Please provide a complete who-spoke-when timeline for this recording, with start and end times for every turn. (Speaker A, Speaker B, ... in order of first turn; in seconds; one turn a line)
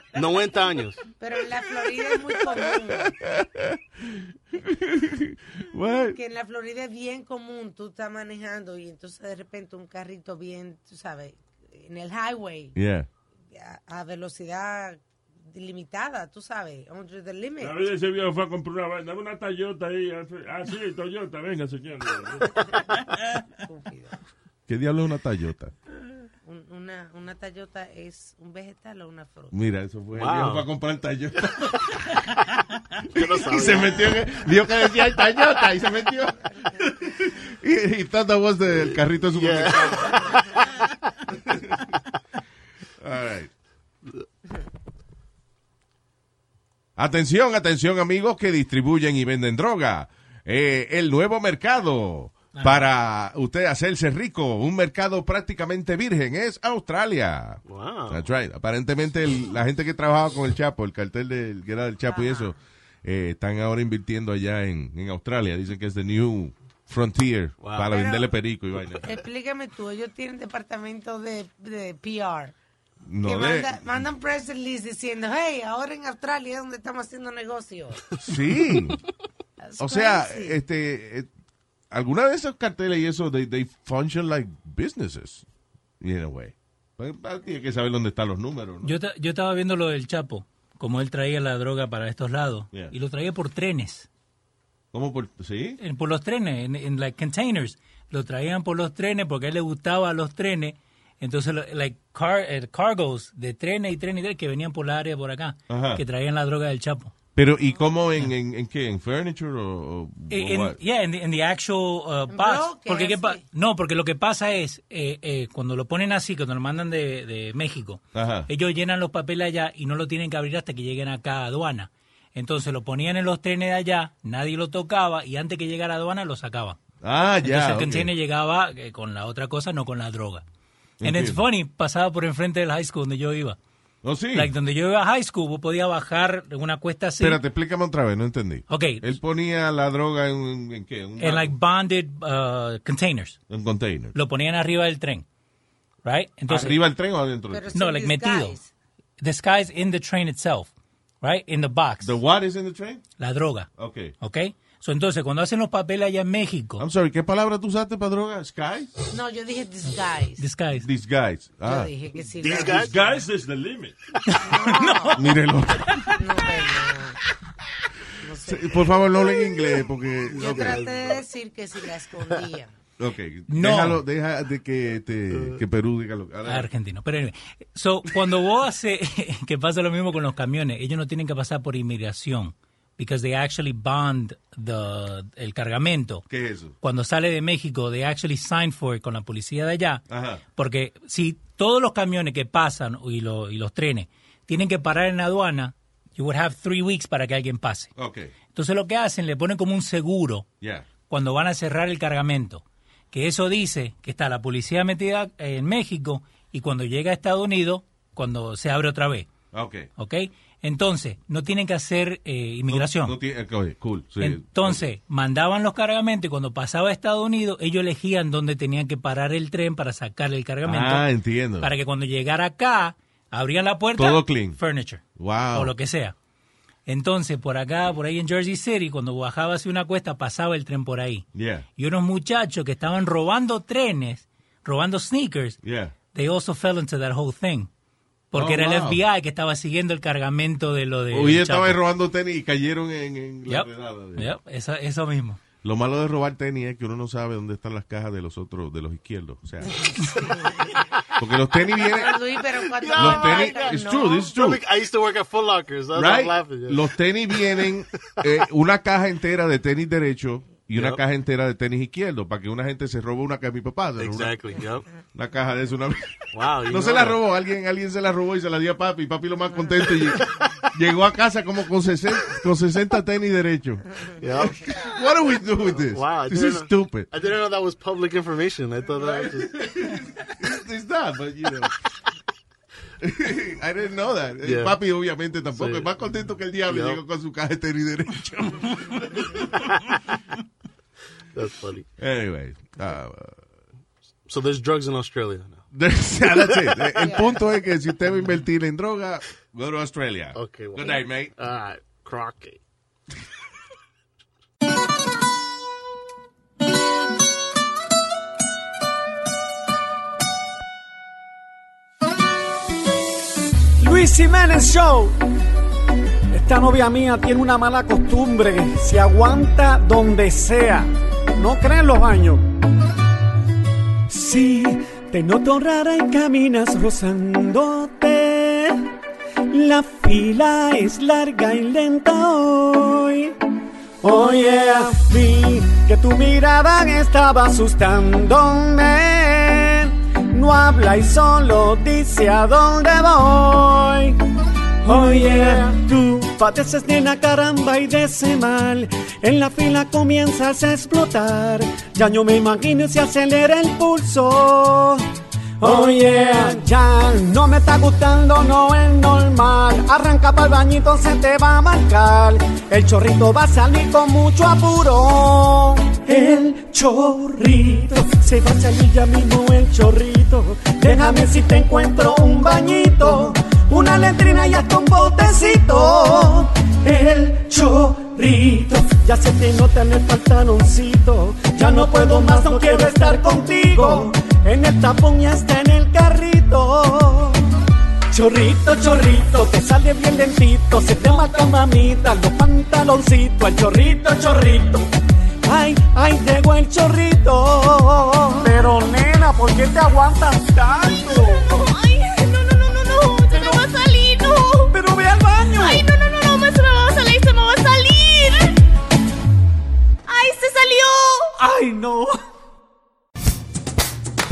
Speaker A: 0.1-1.0
Speaker B: 1.2-3.2
Speaker C: 3.0-6.2
Speaker B: 6.1-12.8
Speaker C: 12.7-13.1
Speaker B: 13.5-17.8
Speaker D: 17.6-22.6
Speaker B: 23.6-24.2
Speaker C: 24.7-25.7
Speaker B: 26.4-29.5
Speaker C: 29.5-32.2
Speaker A: 30.1-30.7
Speaker A: 33.1-34.3
Speaker C: 33.2-40.3
Speaker A: 38.7-40.5
Speaker C: 41.5-41.9
Speaker C: 43.0-43.5
Speaker C: 47.0-69.0
Speaker E: 52.5-52.8
Speaker A: 57.6-58.3
Speaker B: 62.1-62.5
Speaker A: 67.6-68.0
Speaker B: 67.8-68.3
Speaker B: 69.0-72.5
Speaker C: 73.0-74.0
Speaker B: 73.2-78.0
Speaker C: 78.2-79.0
Speaker B: 79.6-80.5
Speaker C: 79.8-81.3
Speaker C: 81.9-85.4
Speaker C: 86.0-88.9
Speaker E: 88.8-94.1
Speaker C: 94.9-95.8
Speaker E: 95.8-107.1
Speaker C: 105.7-106.0
Speaker C: 107.3-110.8
Speaker E: 110.3-126.8
Speaker B: 112.3-113.4
Speaker C: 118.1-118.5
Speaker C: 127.0-128.1
Speaker E: 127.4-130.4
Speaker C: 131.0-131.4
Speaker E: 131.0-133.6
Speaker C: 134.0-134.5
Speaker E: 134.3-137.4
Speaker C: 137.2-141.5
Speaker E: 138.7-139.0
Speaker E: 141.2-143.4
Speaker C: 143.5-144.1
Speaker E: 144.1-145.2
Speaker E: 146.0-146.8
Speaker C: 146.5-147.7
Speaker B: 147.5-148.7
Speaker E: 147.7-148.6
Speaker E: 149.2-152.2
Speaker C: 152.0-153.0
Speaker E: 153.2-153.7
Speaker C: 153.8-154.1
Speaker E: 154.2-156.8
Speaker C: 156.8-158.9
Speaker B: 159.1-160.4
Speaker E: 160.4-160.9
Speaker C: 160.8-161.9
Speaker B: 161.6-163.0
Speaker D: 162.4-163.9
Speaker A: 162.4-162.9
Speaker E: 164.3-165.3
Speaker B: 164.4-165.3
Speaker C: 165.1-166.0
Speaker B: 166.1-167.2
Speaker B: 168.2-168.9
Speaker C: 168.4-170.9
Speaker A: 170.3-171.2
Speaker B: 170.3-172.7
Speaker C: 173.0-176.7
Speaker E: 173.5-174.0
Speaker A: 175.3-175.6
Speaker E: 176.4-186.2
Speaker C: 186.3-186.7
Speaker E: 186.8-197.9
Speaker C: 190.1-190.4
Speaker C: 197.9-198.3
Speaker E: 198.5-200.5
Speaker C: 200.6-200.8
Speaker E: 201.1-209.3
Speaker C: 209.5-209.9
Speaker E: 210.0-213.1
Speaker C: 212.7-214.8
Speaker E: 214.2-221.1
Speaker C: 220.6-221.7
Speaker E: 221.6-226.1
Speaker C: 224.0-224.6
Speaker C: 225.2-225.7
Speaker E: 226.9-235.6
Speaker C: 231.3-231.7
Speaker C: 235.6-235.9
Speaker E: 236.1-237.7
Speaker E: 238.3-241.8
Speaker C: 238.3-239.0
Speaker C: 241.1-244.3
Speaker E: 243.5-245.4
Speaker C: 245.6-250.2
Speaker B: 249.8-250.7
Speaker C: 251.2-254.6
Speaker B: 251.7-254.4
Speaker A: 252.9-253.8
Speaker A: 254.3-257.6
Speaker C: 255.9-264.5
Speaker A: 260.7-261.0
Speaker A: 264.0-264.9
Speaker C: 265.1-273.9
Speaker A: 266.3-267.2
Speaker A: 274.2-274.7
Speaker C: 274.4-277.1
Speaker A: 275.8-279.6
Speaker C: 279.0-281.7
Speaker C: 283.0-289.5
Speaker A: 284.4-284.8
Speaker A: 285.5-285.9
Speaker A: 286.7-287.0
Speaker A: 291.3-291.9
Speaker C: 292.0-293.4
Speaker A: 294.3-295.6
Speaker C: 295.7-301.3
Speaker A: 296.2-296.8
Speaker B: 297.0-297.4
Speaker A: 300.3-302.6
Speaker F: 313.8-315.1
Speaker F: 316.3-322.4
Speaker F: 324.1-328.8
Speaker F: 329.5-333.4
Speaker F: 334.0-344.2
Speaker F: 344.8-355.1
Speaker F: 355.6-387.5
Speaker F: 388.1-394.9
Speaker F: 395.4-401.4
Speaker G: 401.4-404.7
Speaker F: 403.3-403.6
Speaker F: 404.7-405.9
Speaker G: 405.6-408.5
Speaker G: 410.1-411.3
Speaker F: 411.4-412.2